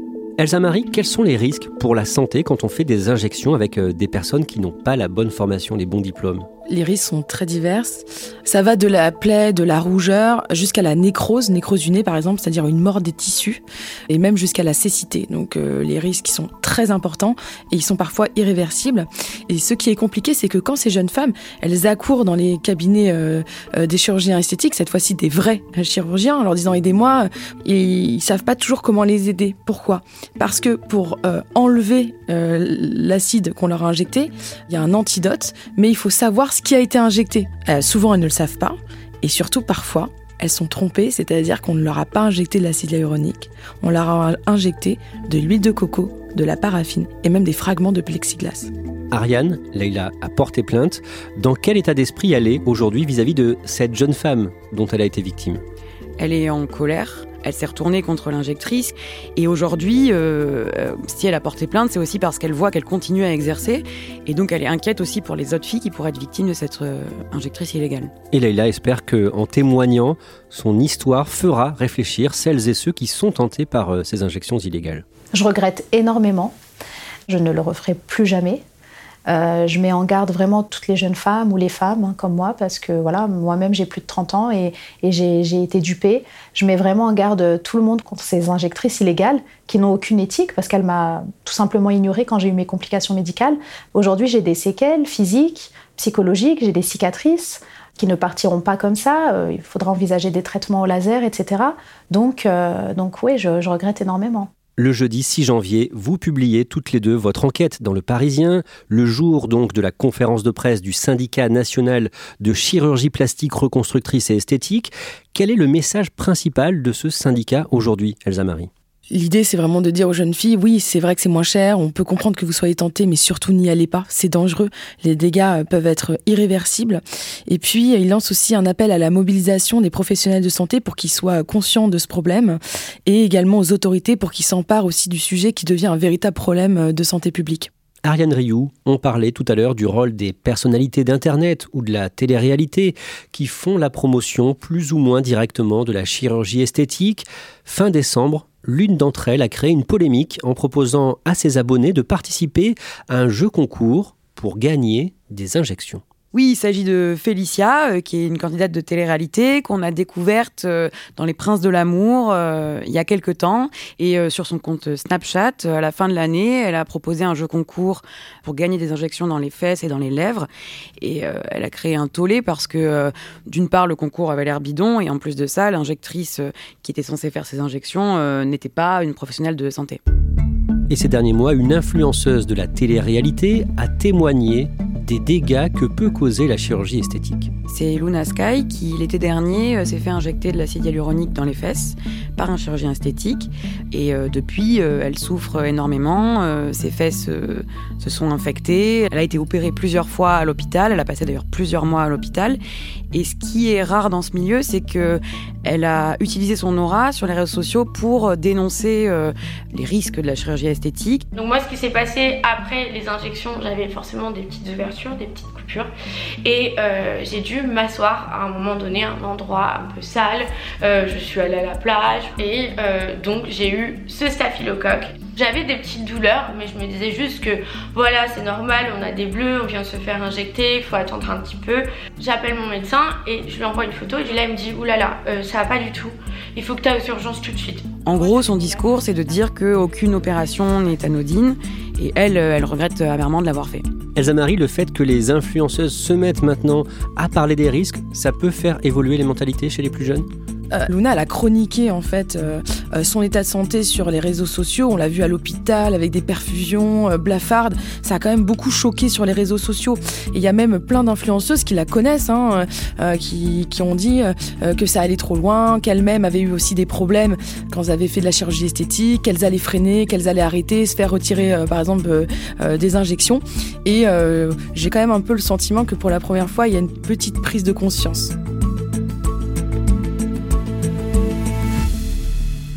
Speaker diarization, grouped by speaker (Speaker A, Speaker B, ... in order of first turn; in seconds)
Speaker A: 0.4-6.5, 49.1-55.6, 68.3-75.0, 104.8-118.7, 138.0-156.0, 180.9-187.5, 244.1-250.2
Speaker B: 6.7-48.7, 119.1-137.7, 250.7-278.3
Speaker C: 56.2-68.1, 156.3-170.5, 171.0-180.0, 187.7-202.6, 203.1-211.2, 238.0-243.8
Speaker D: 75.3-76.5, 77.3-78.6, 79.3-104.5
Speaker E: 211.3-215.9, 216.4-238.0